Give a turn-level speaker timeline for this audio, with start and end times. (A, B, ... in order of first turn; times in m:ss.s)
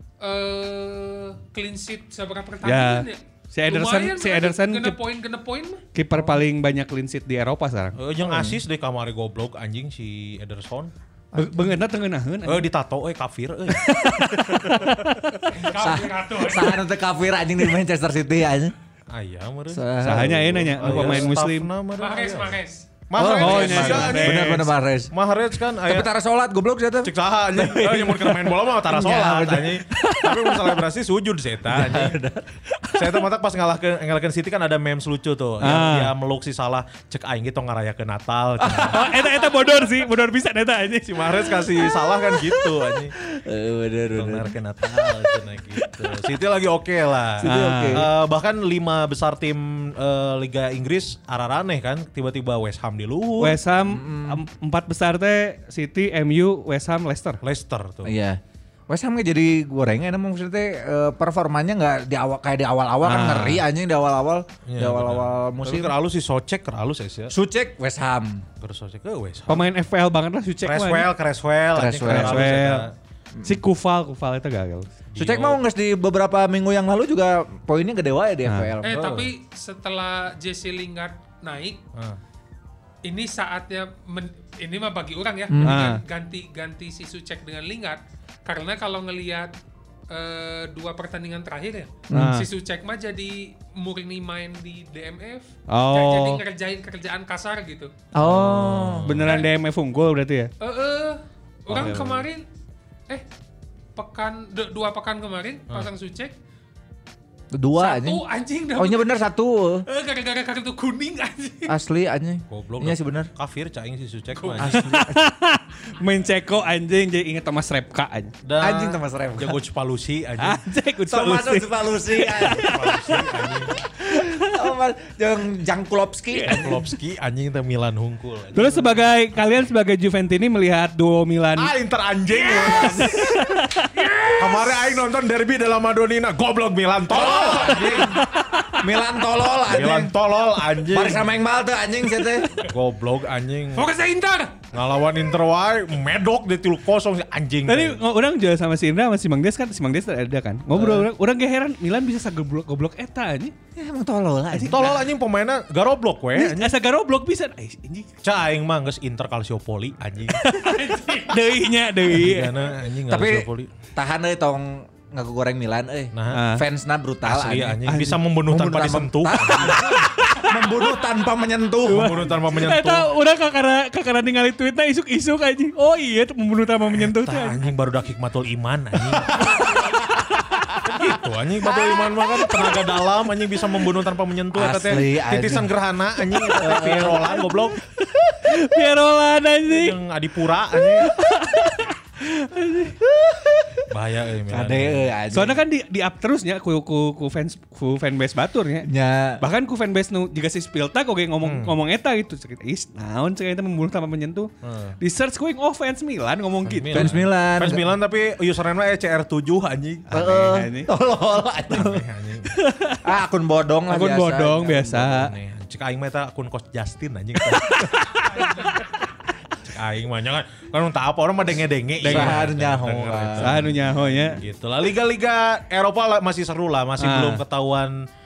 0:00.2-0:05.8 A
0:02.6-0:05.0 B
0:05.9-0:08.0 B
0:08.0-0:10.9 C
0:08.2-0:08.6 D
0:11.3-0:11.7 D
0:11.3-0:12.6 B
0:12.4-0:14.9 C
0:13.7-0:15.5 B
0:15.5-0:16.8 A
0:15.8-0:18.7 D
0:19.1-0:22.6 C
0:19.7-0:21.3 D
0:20.0-0:21.7 B
0:22.0-0:22.9 A
0:23.1-0:26.1 C
0:23.2-0:25.1 D
0:23.2-0:24.7 B
0:25.8-0:30.8 D
0:27.0-0:32.2 C
0:31.7-0:32.5 D
0:32.9-0:39.0 C
0:35.6-0:36.1 B
0:38.6-0:40.0 D
0:38.8-0:41.4 B
0:41.0-0:43.2 C
0:43.2-0:44.5 D
0:44.1-0:53.6 C
0:47.4-0:48.1 D
0:47.4-0:48.0 B
0:53.4-0:57.4 B
0:53.8-0:54.4 D
0:57.4-0:58.1 C
0:58.0-1:05.9 D
1:03.0-1:03.6 B
1:04.6-1:07.3 C
1:07.3-1:08.4 D
1:08.6-1:09.7 C
1:09.5-1:11.1 B
1:10.6-1:12.9 C
1:11.7-1:12.6 D
1:12.0-1:12.8 B
1:13.4-1:14.9 B
1:15.1-1:15.6 C
1:15.2-1:19.0 D
1:18.4-1:18.7 B
1:18.8-1:21.8 A
1:18.9-1:19.3 C
1:23.0-1:29.5 A
1:25.5-1:25.8 D
1:25.6-1:26.0 B
1:30.1-1:37.9 A
1:32.1-1:32.5 B
1:35.7-1:36.4 B
1:38.1-1:39.1 D
1:38.2-1:39.5 C
1:39.0-1:40.5 B
1:40.6-1:42.4 A
1:41.7-1:42.1 C
1:41.7-1:42.2 B
1:44.0-1:46.3 A
1:47.5-1:48.2 D
1:47.8-1:49.1 A
1:48.7-1:49.8 D
1:49.9-1:51.8 A
1:51.7-1:53.3 D
1:52.5-1:54.9 C
1:54.6-1:55.2 D
1:54.7-1:58.3 B
1:58.4-2:00.6 C
1:58.6-1:59.6 D
2:00.4-2:03.2 B
2:01.1-2:02.9 D
2:02.4-2:03.7 C
2:03.9-2:06.8 D
2:04.0-2:04.6 B
2:06.3-2:06.7 B
2:06.4-2:09.0 C
2:08.5-2:11.7 B
2:11.6-2:13.2 C
2:12.4-2:13.4 D
2:12.6-2:13.9 B
2:14.0-2:14.8 A
2:14.4-2:18.1 C
2:17.1-2:18.2 D
2:17.8-2:18.8 B
2:18.8-2:20.1 D
2:19.6-2:21.2 C
2:20.8-2:22.5 D
2:22.7-2:23.9 C
2:23.7-2:24.6 A
2:24.7-2:28.0 C
2:27.7-2:33.5 B
2:33.8-2:35.0 D
2:34.6-2:36.7 C
2:36.4-2:38.1 B
2:38.2-2:40.5 C
2:40.3-2:42.5 B
2:40.7-2:41.4 A
2:42.1-2:43.7 C
2:43.1-2:47.8 D
2:46.1-2:46.4 C
2:46.3-2:46.6 B
2:47.2-2:50.0 C
2:47.8-2:48.2 B
2:48.5-2:52.3 D
2:49.9-2:50.8 B
2:51.8-2:57.6 B
2:51.9-2:53.1 C
2:57.0-2:59.6 C
2:59.3-3:00.0 D
3:00.9-3:07.8 C
3:01.7-3:02.6 D
3:04.5-3:05.7 D
3:06.5-3:07.3 D
3:08.0-3:10.0 B
3:09.7-3:11.1 C
3:10.9-3:13.0 B
3:13.0-3:13.8 D
3:13.9-3:15.1 C
3:14.5-3:15.6 D
3:15.3-3:18.9 B
3:18.9-3:19.4 D
3:19.4-3:27.2 B
3:21.4-3:21.7 C
3:24.6-3:25.0 C
3:26.6-3:30.4 C
3:26.9-3:27.9 D
3:30.1-3:32.0 D
3:30.2-3:30.9 B
3:31.7-3:32.5 C
3:32.5-3:33.0 B
3:33.0-3:35.1 D
3:33.9-3:35.3 B
3:34.9-3:38.7 C
3:39.6-3:48.0 C
3:42.0-3:42.4 B
3:42.0-3:43.6 D
3:43.4-3:44.4 B
3:47.0-3:47.4 B